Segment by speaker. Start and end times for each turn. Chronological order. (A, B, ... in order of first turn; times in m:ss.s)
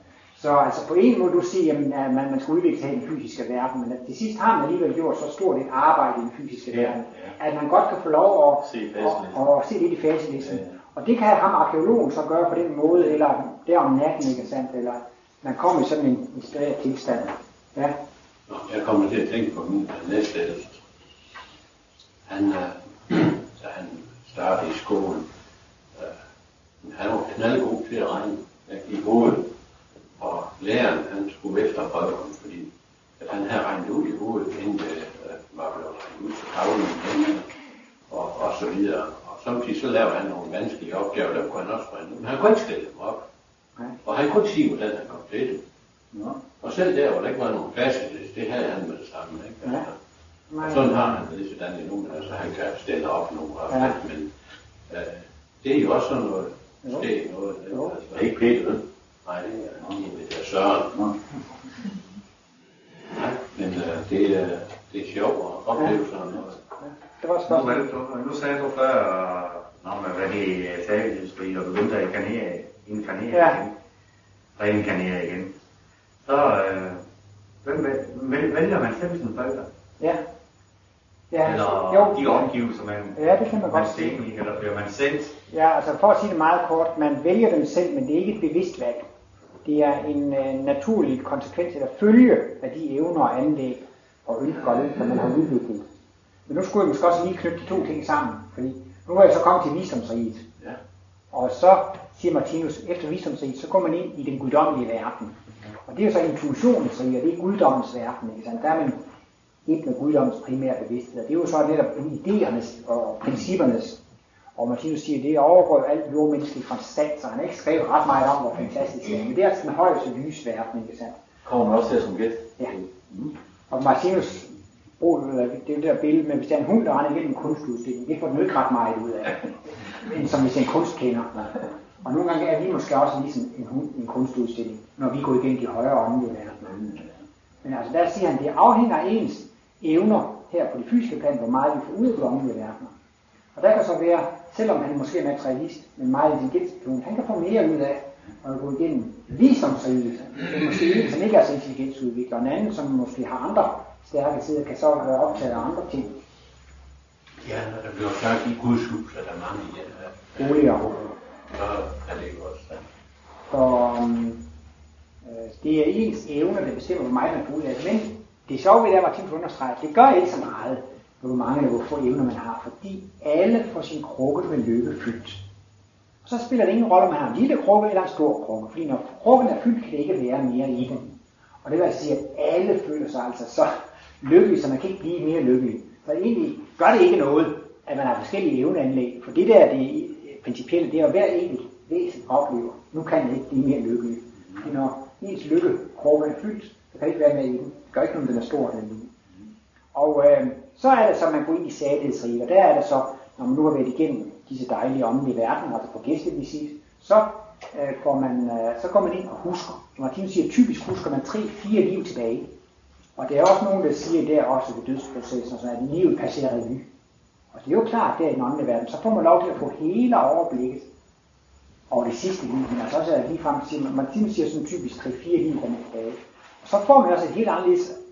0:00.4-0:18.0 A
0:08.6-0:09.4 B
0:18.5-0:20.8 C
0:22.3-0:25.3 C
0:26.8-0:29.5 C
0:30.2-0:37.5 C
0:38.1-0:43.2 C
0:44.0-0:45.6 C
0:46.6-0:50.0 C
0:50.5-0:51.0 A
0:50.6-0:54.3 C
0:54.9-1:01.1 C
0:58.1-0:58.6 B
1:03.1-1:06.6 C
1:06.8-1:07.8 A
1:07.5-1:13.7 D
1:13.3-1:13.6 A
1:14.6-1:15.5 D
1:16.2-1:17.0 D
1:17.6-1:19.7 D
1:21.3-1:22.5 A
1:21.4-1:23.2 D
1:23.1-1:24.2 A
1:23.7-1:25.3 D
1:25.5-1:29.0 A
1:29.6-1:35.8 A
1:36.5-1:40.5 A
1:41.3-1:49.0 A
1:49.6-1:54.0 A
1:54.6-2:01.2 A
2:01.4-2:03.3 B
2:03.7-2:17.0 A
2:17.6-2:22.9 A
2:23.5-2:36.2 A
2:37.4-2:40.3 C
2:40.4-2:41.1 A
2:41.5-2:42.8 C
2:43.5-2:44.4 A
2:45.2-2:55.4 A
2:56.2-3:19.1 A
3:19.9-3:32.5 A
3:33.2-3:36.9 A
3:37.5-3:40.9 A
3:41.9-3:48.0 A